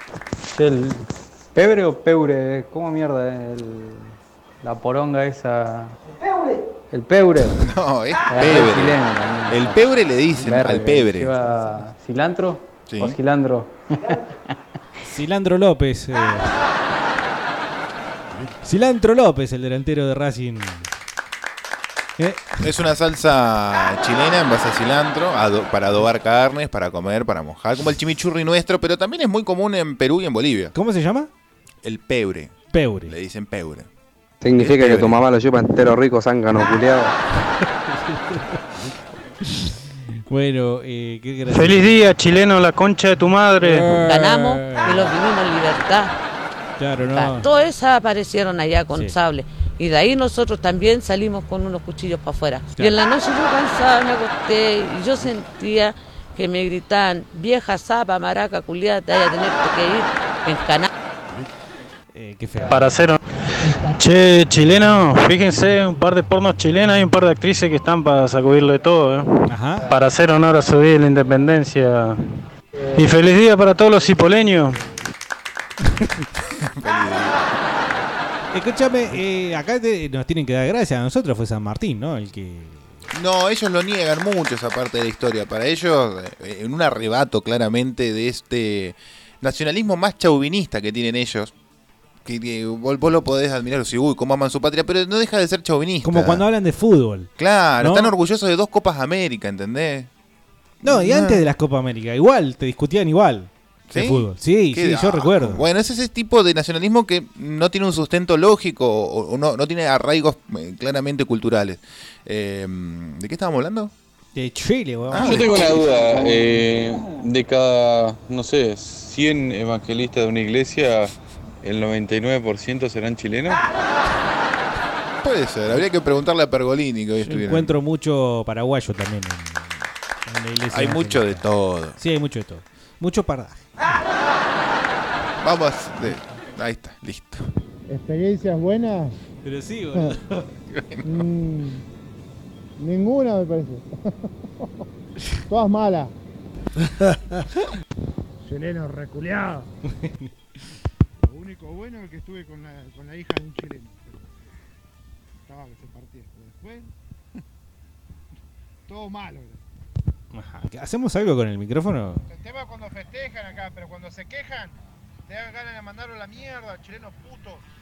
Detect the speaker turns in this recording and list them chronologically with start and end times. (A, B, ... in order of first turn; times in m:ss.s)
0:00.5-0:06.0 A
0:06.9-0:07.6 A
0:07.6-0:09.0 B
0:08.3-0:09.8 A
0:09.5-0:11.3 B
0:10.4-0:14.2 A
0:12.9-0:13.2 B
0:15.1-0:16.6 C
0:18.6-0:20.9 C
0:22.2-0:22.6 C
0:22.6-0:30.7 B
0:30.7-0:31.3 C
0:31.8-0:33.9 B
0:32.7-0:33.1 C
0:34.4-0:37.2 D
0:34.6-0:35.2 B
0:37.7-0:38.6 C
0:39.4-0:42.0 C
0:41.5-0:43.9 E
0:43.6-0:45.1 C
0:44.0-0:46.1 F
0:46.8-0:47.5 C
0:47.1-1:00.9 F
1:02.1-1:02.9 C
1:02.7-1:03.2 E
1:03.9-1:09.3 E
1:09.5-1:09.9 C
1:09.9-1:12.2 E
1:13.0-1:14.8 E
1:16.6-1:17.5 B
1:18.5-1:22.9 C
1:23.1-1:31.5 B
1:32.2-1:36.4 B
1:36.0-1:38.1 C
1:37.4-1:40.1 B
1:40.8-1:41.5 B
1:40.8-1:45.6 C
1:43.9-1:53.9 B
1:54.4-1:55.5 C
1:55.1-1:55.6 B
1:55.2-2:03.6 G
2:05.2-2:07.8 B
2:07.2-2:11.4 C
2:10.7-2:12.0 B
2:12.0-2:13.7 C
2:15.4-2:17.4 B
2:17.9-2:19.1 H
2:19.4-2:20.5 C
2:20.7-2:21.2 B
2:21.0-2:21.8 H
2:22.8-2:23.9 H
2:25.5-2:26.1 H
2:28.4-2:29.7 H
2:31.2-2:34.4 H
2:35.5-2:36.9 H
2:38.9-2:39.6 H
2:40.3-2:42.2 C
2:42.3-2:47.6 H